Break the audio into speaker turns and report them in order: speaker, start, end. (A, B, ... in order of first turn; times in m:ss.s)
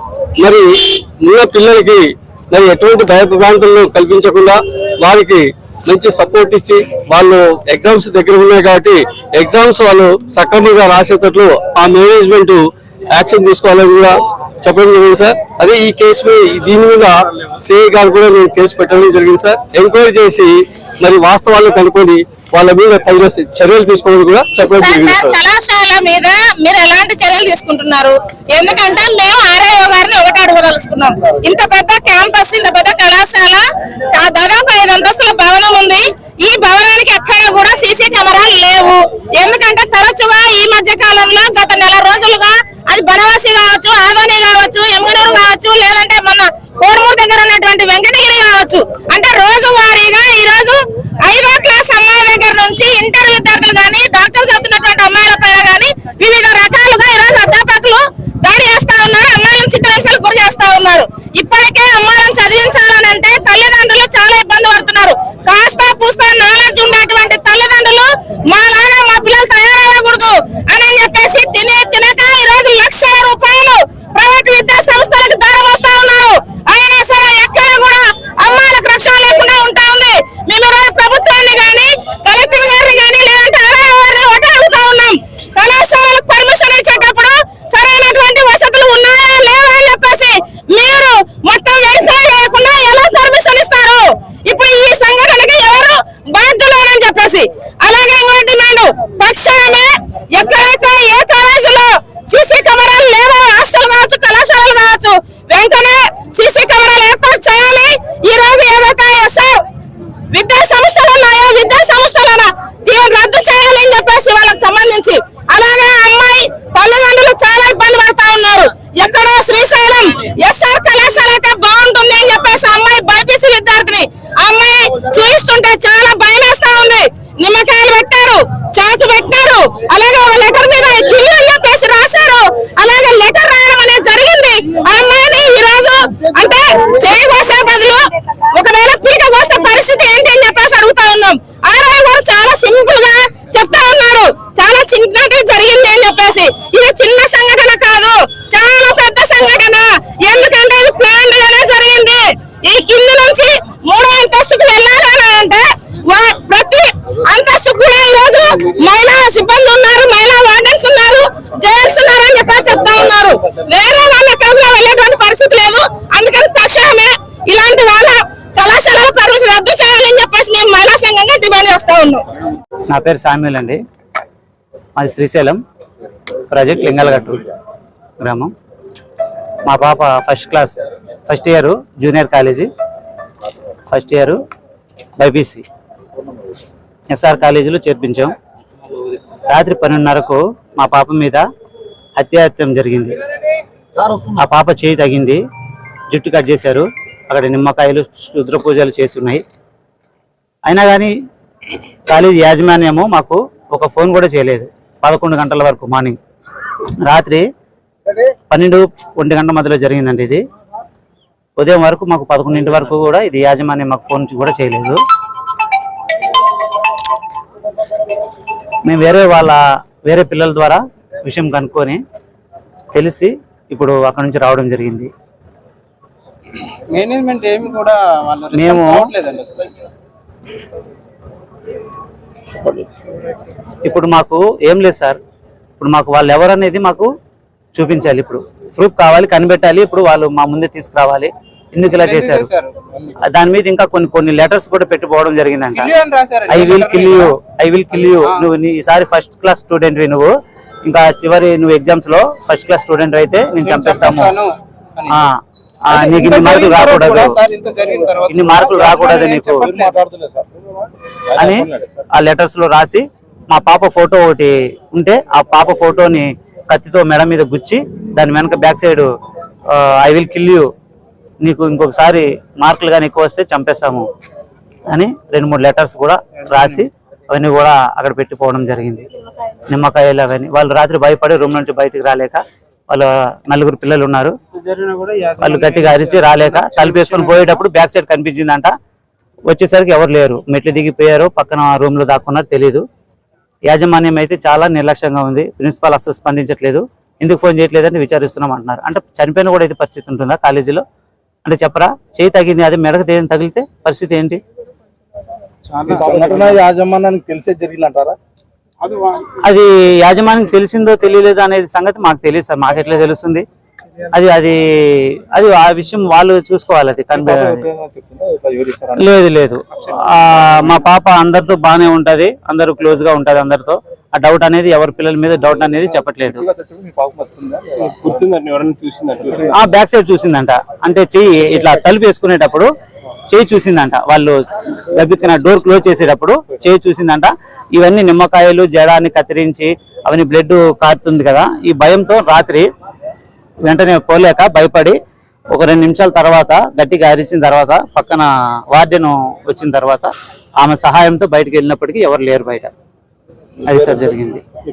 0:00.4-0:25.4 A
0:24.6-1:49.6 B
1:50.3-2:52.2 B
2:52.9-2:53.8 C
2:55.0-2:55.6 C
2:56.5-2:57.5 C
2:58.2-2:58.5 C
2:59.6-3:02.7 C
3:03.9-3:04.4 C
3:05.2-3:05.6 C
3:07.1-3:08.4 C
3:09.5-3:11.4 C
3:12.2-3:13.2 C
3:14.3-3:15.4 C
3:16.1-3:19.4 C
3:20.7-3:21.1 C
3:22.1-3:26.2 C
3:27.0-3:27.4 C
3:28.5-3:30.4 C
3:31.6-3:35.0 C
3:38.8-3:42.0 C
3:42.9-3:45.1 C
3:46.9-3:49.8 D
3:48.5-3:49.1 C
3:53.8-3:55.2 C
3:55.8-3:57.1 C
3:57.8-4:02.5 C
4:01.9-4:03.0 D
4:03.2-4:05.9 C
4:05.7-4:07.4 D
4:06.5-4:10.3 C
4:08.0-4:08.5 D
4:10.8-4:14.4 C
4:13.6-4:15.2 D
4:15.1-4:17.4 C
4:15.9-4:20.0 D
4:18.3-4:19.7 C
4:19.6-4:20.5 E
4:21.4-4:22.0 E
4:21.4-4:29.1 C
4:29.7-4:30.7 C
4:31.4-4:34.1 C
4:34.9-4:39.1 C
4:36.5-4:36.8 D
4:39.7-4:44.4 C
4:44.5-4:47.6 D
4:45.4-4:48.7 C
4:49.5-4:52.8 C
4:53.7-5:00.8 C
5:01.4-5:04.4 C
5:05.7-5:06.7 D
5:05.9-5:08.2 E
5:08.8-5:09.4 D
5:09.4-5:13.5 C
5:14.1-5:17.7 C
5:17.2-5:19.0 E
5:19.0-5:26.4 C
5:26.7-5:27.2 E
5:28.0-5:29.5 A
5:29.5-5:32.7 C
5:33.3-5:42.7 C
5:43.6-5:45.0 C
5:45.5-5:52.7 C
5:53.6-5:54.4 C